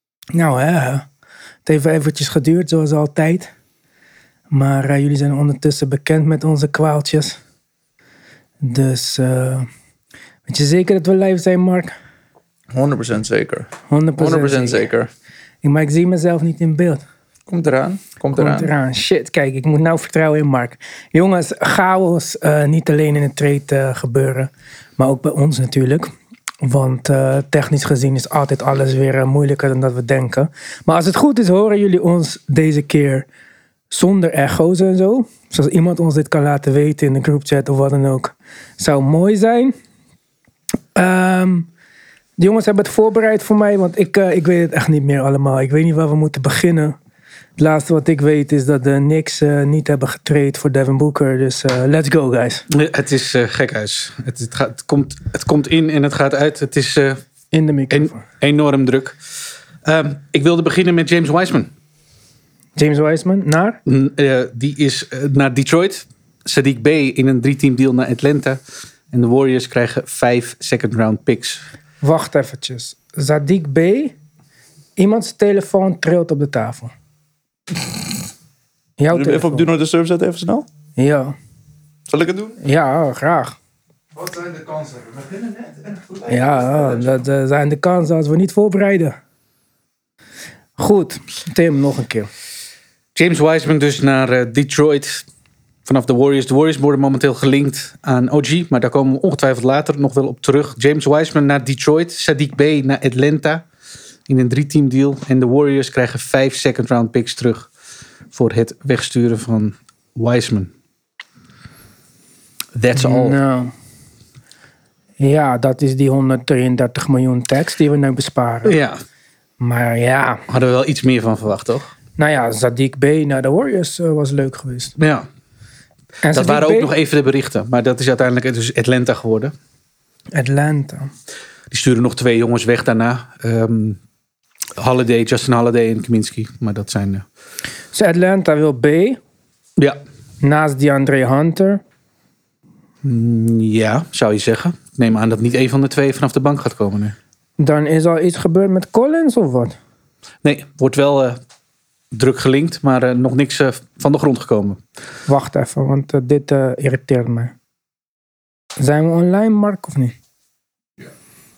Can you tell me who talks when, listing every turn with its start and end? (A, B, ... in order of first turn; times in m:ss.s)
0:00.3-0:01.0 A
0:01.6-0:03.5 A
0:04.5-0:07.4 A
0:08.6-0:09.7 A
0:10.5-0:11.9 A
0:12.7-0:15.1 B
0:13.9-0:14.9 A
0:15.6-0:17.0 A
0:17.5-0:18.7 B
0:18.4-0:26.1 A
0:26.6-0:33.3 A
0:33.9-0:39.7 A
0:40.9-0:41.7 A
0:42.4-0:47.0 A
0:47.6-0:52.6 A
0:52.7-0:57.2 C
0:57.5-0:58.2 A
0:57.9-0:59.2 C
0:59.8-1:01.7 C
1:02.8-1:03.8 A
1:03.8-1:08.6 C
1:09.1-1:11.6 C
1:12.0-1:14.1 A
1:15.0-1:16.9 A
1:19.0-1:19.7 A
1:19.1-1:20.6 B
1:21.0-1:21.3 A
1:22.1-1:22.6 B
1:22.6-1:23.6 A
1:24.2-1:26.0 B
1:26.2-1:29.2 A
1:30.8-1:32.3 A
1:33.1-1:35.2 C
1:35.8-1:43.6 C
1:44.3-1:47.7 C
1:48.3-1:50.7 C
1:52.7-1:53.4 C
1:52.9-1:53.7 A
1:55.2-1:58.8 A
1:58.6-1:59.0 C
1:59.6-2:00.4 A
2:00.5-2:01.9 C
2:02.2-2:04.9 A
2:05.0-2:05.2 C
2:06.2-2:06.9 A
2:06.3-2:09.5 C
2:10.3-2:11.1 A
2:11.7-2:14.0 C
2:14.8-2:17.2 C
2:17.9-2:19.2 A
2:20.4-2:21.8 A
2:23.0-2:27.1 C
2:27.6-2:29.8 A
2:30.4-2:31.4 C
2:32.1-2:34.8 C
2:35.3-2:37.5 A
2:38.8-2:40.1 A